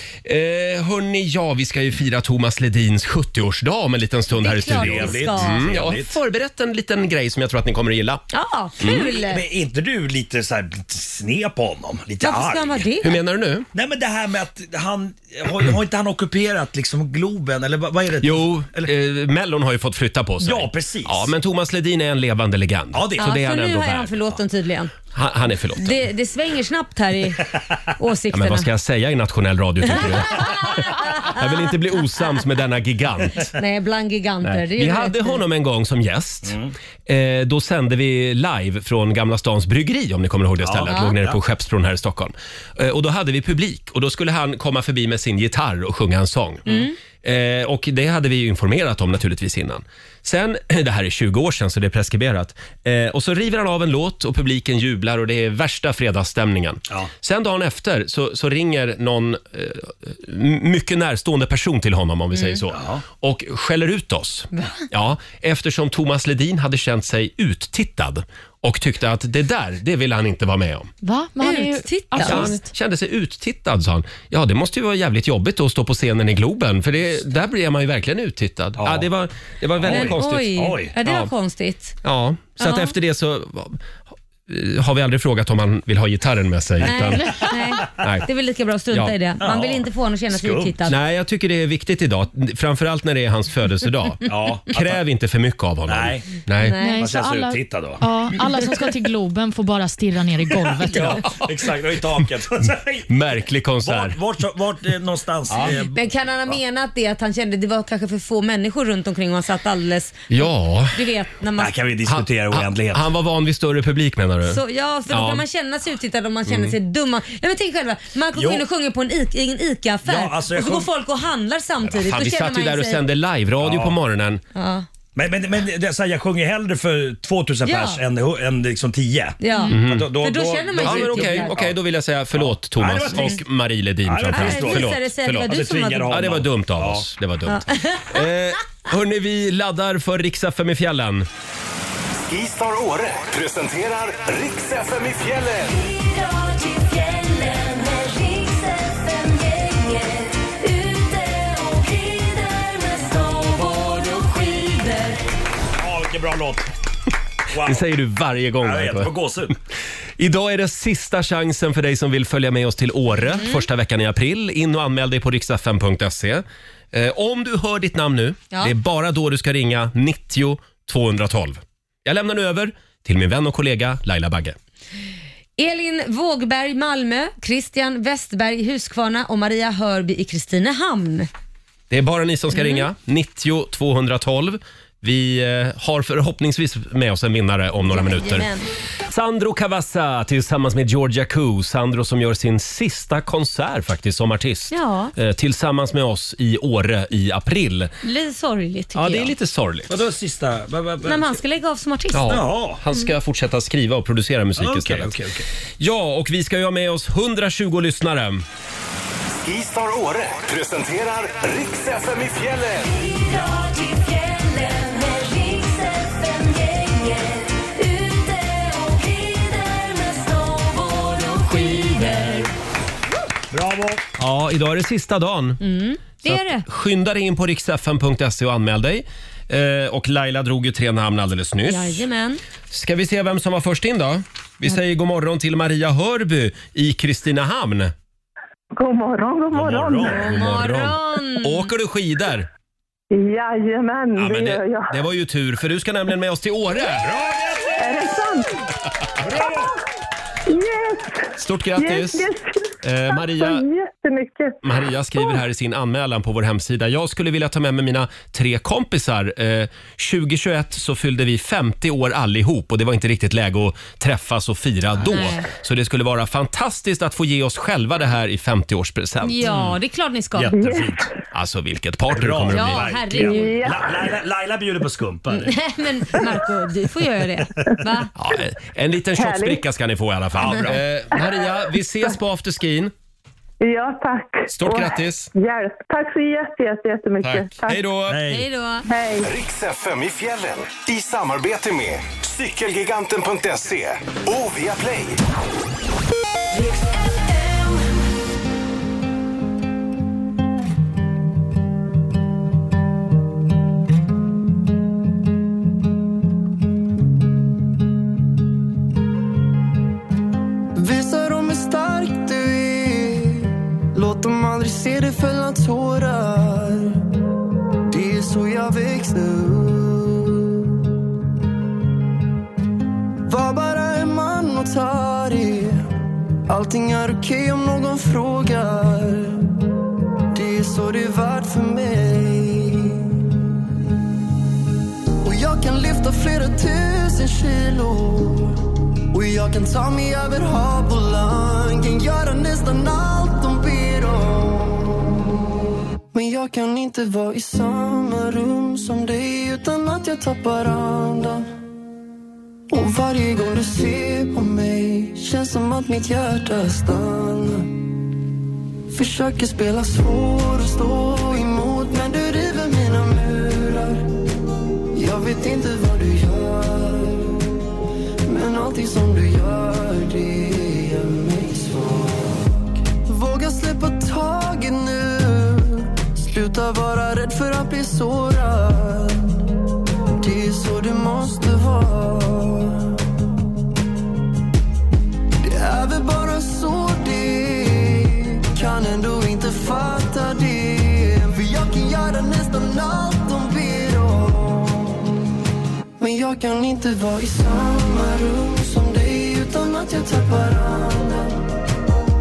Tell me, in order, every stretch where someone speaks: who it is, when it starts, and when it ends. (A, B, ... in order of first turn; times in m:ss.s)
0:00.2-0:08.2 A
0:04.3-0:05.6 B
0:04.6-0:06.2 C
0:08.3-0:09.4 B
0:08.8-0:09.1 A
0:09.1-0:12.9 C
0:12.2-0:13.2 B
0:13.0-0:13.7 A
0:13.7-0:18.9 C
0:18.2-0:24.1 A
0:20.4-0:21.3 C
0:22.9-0:23.4 C
0:23.2-0:24.9 B
0:25.1-0:26.0 A
0:25.8-0:28.7 B
0:28.3-0:33.5 A
0:30.0-0:31.4 B
0:33.5-0:35.4 B
0:34.4-0:46.7 A
0:36.5-0:36.7 C
0:40.6-0:41.4 C
0:40.9-0:41.1 B
0:46.7-0:47.0 B
0:47.2-1:10.9 A
1:02.4-1:02.6 B
1:02.7-1:03.0 C
1:04.5-1:04.8 B
1:11.0-1:12.6 D
1:11.4-1:12.5 B
1:12.2-1:20.5 A
1:18.8-1:19.1 C
1:19.8-1:20.9 C
1:19.9-1:22.0 B
1:21.0-1:21.3 A
1:22.0-1:23.8 A
1:22.6-1:22.9 B
1:24.5-1:28.3 A
1:26.8-1:31.0 B
1:29.4-1:30.8 C
1:30.9-1:36.8 A
1:34.3-1:35.0 C
1:35.9-1:36.3 C
1:36.6-1:37.1 B
1:36.8-1:41.3 D
1:37.0-1:38.0 C
1:40.6-1:46.0 C
1:43.1-1:44.2 A
1:45.5-1:45.8 A
1:45.7-1:51.8 B
1:50.3-1:51.0 A
1:51.6-1:53.1 C
1:52.1-1:55.4 A
1:54.5-2:03.0 B
1:56.5-1:56.8 A
1:58.3-1:58.6 C
2:00.0-2:00.9 C
2:01.9-2:04.4 A
2:03.6-2:04.0 C
2:04.6-2:04.9 B
2:05.2-2:11.8 C
2:07.7-2:08.0 B
2:09.4-2:11.6 B
2:09.7-2:10.2 A
2:10.8-2:15.5 A
2:12.3-2:13.4 C
2:14.0-2:17.1 C
2:14.3-2:16.3 B
2:16.1-2:21.3 A
2:17.5-2:18.2 B
2:22.2-2:25.8 E
2:25.8-2:35.2 B
2:35.8-2:36.7 C
2:37.5-2:37.9 C
2:37.6-2:39.1 A
2:38.6-2:39.6 C
2:40.2-2:54.6 A
2:43.4-2:43.6 B
2:55.6-3:01.3 B
3:01.9-3:08.5 A
3:02.5-3:02.9 B
3:07.9-3:08.7 B
3:09.1-3:17.9 A
3:14.7-3:15.1 B
3:18.0-3:19.3 B
3:19.0-3:20.0 A
3:19.9-3:21.4 C
3:21.0-3:22.4 B
3:22.1-3:25.2 A
3:22.3-3:22.8 C
3:24.6-3:25.5 C
3:25.8-3:28.4 A
3:29.4-3:33.1 E
3:33.3-3:42.5 B
3:43.5-3:44.0 C
3:44.2-3:45.6 A
3:45.6-3:46.6 B
3:46.2-3:52.0 A
3:51.7-3:52.4 B
3:52.7-3:57.9 A
3:58.8-4:00.2 F
3:59.5-4:00.5 C
4:00.1-4:01.7 B
4:00.2-4:02.5 A
4:03.1-4:05.0 F
4:04.2-4:07.1 A
4:06.9-4:08.1 C
4:07.8-4:08.6 F
4:09.2-4:09.7 C
4:10.5-4:14.6 F
4:11.4-4:12.3 A
4:12.8-4:13.6 A
4:14.6-4:29.7 A
4:25.0-4:25.5 B
4:29.2-4:30.6 B
4:30.4-4:31.1 C
4:30.5-4:31.1 F
4:31.3-4:32.9 A
4:32.1-4:35.6 C
4:32.5-4:33.8 B
4:33.2-4:34.1 F
4:35.3-4:38.1 B
4:38.2-4:42.9 A
4:39.2-4:39.6 F
4:40.3-4:40.8 C
4:43.6-4:47.8 F
4:44.5-4:45.3 A
4:47.2-4:48.2 A
4:48.1-4:48.5 C
4:48.3-4:48.9 B
4:48.9-4:49.3 F
4:49.2-4:55.2 E
5:10.8-5:17.1 G
5:17.9-5:20.6 G
5:23.3-5:25.9 G
5:26.5-5:29.5 G
5:30.3-5:33.2 G
5:35.2-5:45.2 G
5:46.1-5:51.5 G
5:52.7-5:57.8 G
5:58.9-6:04.1 G
6:04.9-6:07.5 G
6:08.2-6:19.4 G
6:20.1-6:23.0 G
6:25.4-6:35.1 G
6:36.0-6:41.4 G